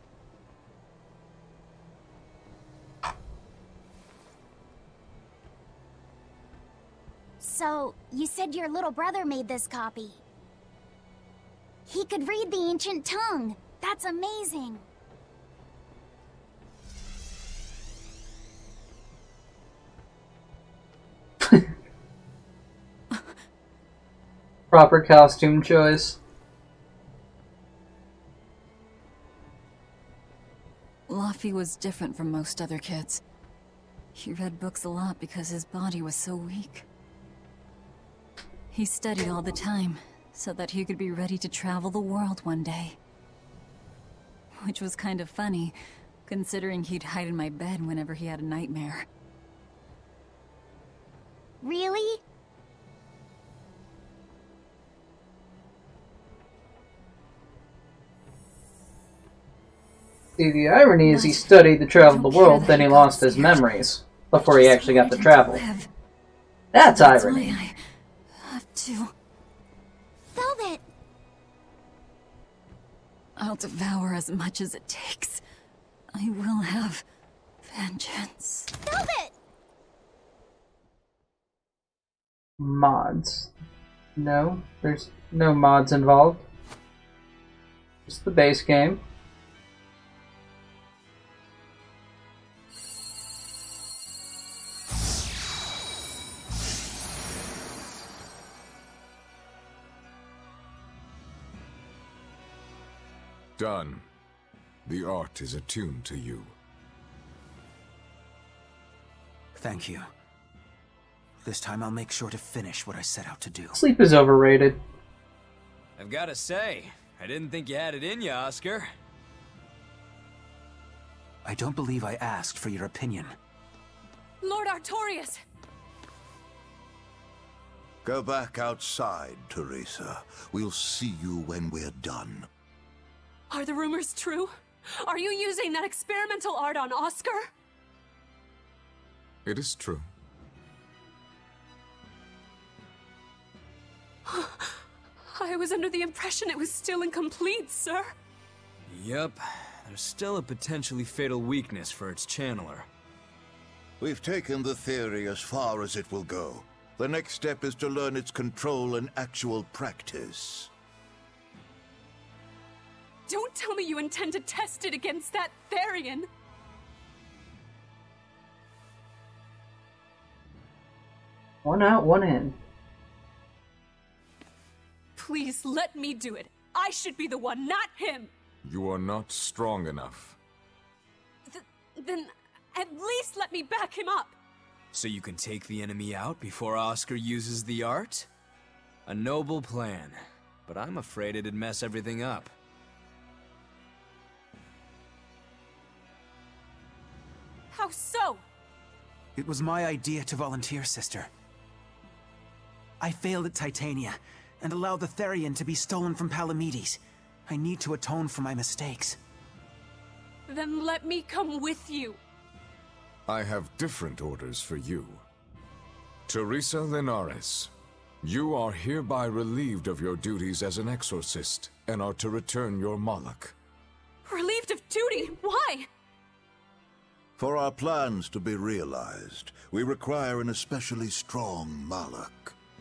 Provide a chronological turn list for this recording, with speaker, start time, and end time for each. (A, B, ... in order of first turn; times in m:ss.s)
0:07.4-0:10.2 A
0:11.9-0:14.8 A
0:24.7-0:26.2 B
0:31.1-0:33.2 C
0:34.2-0:36.9 C
0:38.7-0:43.0 C
0:44.6-0:45.8 C
0:46.3-0:49.1 C
0:51.6-0:52.2 A
1:00.4-1:05.6 B
1:01.0-1:03.7 C
1:04.4-1:05.9 C
1:06.7-1:07.5 B
1:06.9-1:07.8 C
1:08.4-1:09.1 C
1:10.3-1:10.8 A
1:13.4-1:15.4 C
1:16.2-1:17.0 C
1:17.7-1:18.7 C
1:18.8-1:19.3 A
1:22.6-1:23.5 B
1:24.2-1:26.4 B
1:28.1-1:29.0 B
1:43.6-1:44.1 D
1:44.8-1:46.5 D
1:49.6-1:50.1 E
1:51.4-1:53.8 E
1:53.7-1:54.8 B
1:56.0-1:58.9 F
2:01.4-2:03.4 E
2:04.4-2:05.4 G
2:08.0-2:12.5 H
2:13.5-2:17.5 G
2:19.4-2:20.1 D
2:24.3-2:24.7 G
2:25.3-2:28.1 G
2:28.9-2:32.9 F
2:34.0-2:40.7 H
2:43.3-2:46.3 G
2:51.6-2:52.6 B
2:55.2-2:58.3 G
2:58.6-3:00.4 D
3:01.5-3:04.4 G
3:04.9-3:08.3 F
3:09.1-3:12.5 F
3:17.7-3:18.4 G
3:19.4-3:21.3 E
3:23.0-3:29.2 E
3:30.5-3:32.2 G
3:33.3-3:35.2 D
3:36.3-3:37.7 D
3:38.2-3:43.6 D
3:44.2-3:45.9 G
3:47.4-3:52.6 H